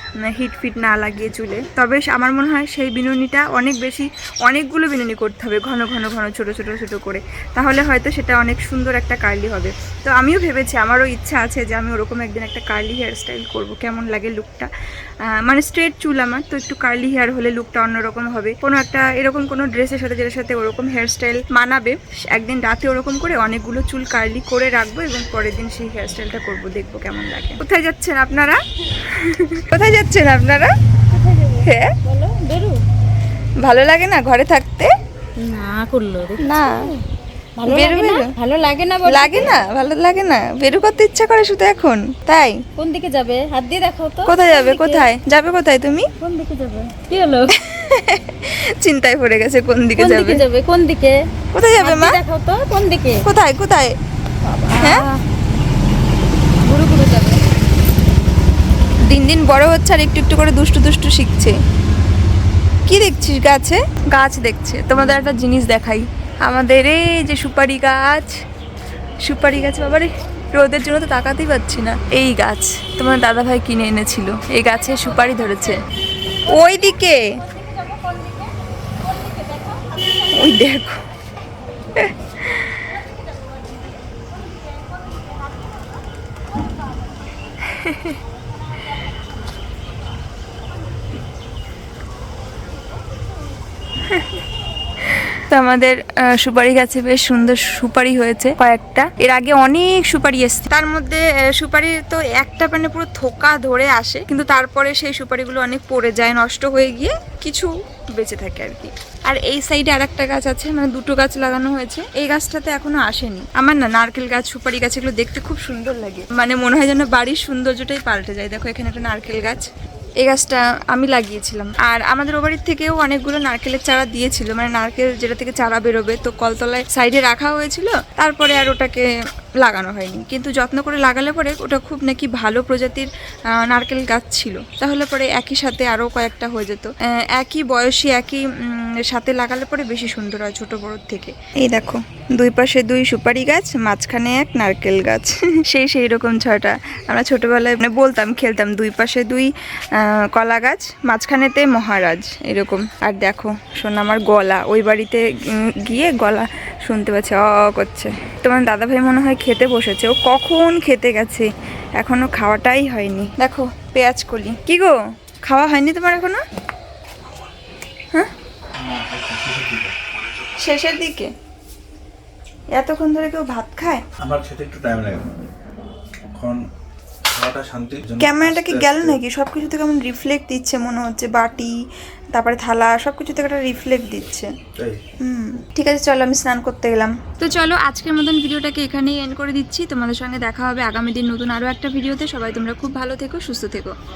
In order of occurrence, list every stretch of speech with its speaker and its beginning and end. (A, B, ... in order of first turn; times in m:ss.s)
0:00.3-0:14.7 A
0:15.4-0:30.7 A
0:31.1-0:32.8 B
0:31.6-0:31.9 A
0:33.6-0:34.9 A
0:35.4-0:37.0 B
0:36.4-0:36.8 A
0:37.6-0:39.6 B
0:37.6-0:38.3 A
0:39.0-0:42.6 A
0:42.8-0:45.1 B
0:44.2-0:46.1 A
0:46.2-0:47.5 B
0:47.5-0:50.4 A
0:50.0-0:51.2 B
0:51.5-0:52.2 A
0:51.8-0:53.2 B
0:53.2-0:53.9 A
0:54.4-0:55.1 B
0:54.8-0:55.1 A
0:56.6-0:57.4 B
0:59.1-1:01.6 A
1:02.9-1:08.3 A
1:09.2-1:15.8 A
1:14.9-1:15.8 B
1:16.4-1:17.4 A
1:16.5-1:20.5 B
1:20.3-1:21.0 A
1:22.0-1:22.8 A
1:22.9-1:23.2 B
1:24.1-1:25.8 B
1:27.6-1:28.2 A
1:34.1-1:34.4 A
1:35.1-1:59.7 A
2:00.2-2:09.0 A
2:09.6-2:35.3 A
2:35.8-2:46.4 A
2:48.7-2:50.0 C
2:50.6-2:51.3 A
2:52.7-2:54.0 A
2:54.2-2:55.3 C
2:56.3-2:56.6 C
2:57.2-2:59.2 C
2:58.2-3:01.8 A
3:02.3-3:04.5 A
3:04.8-3:05.0 C
3:05.2-3:13.9 A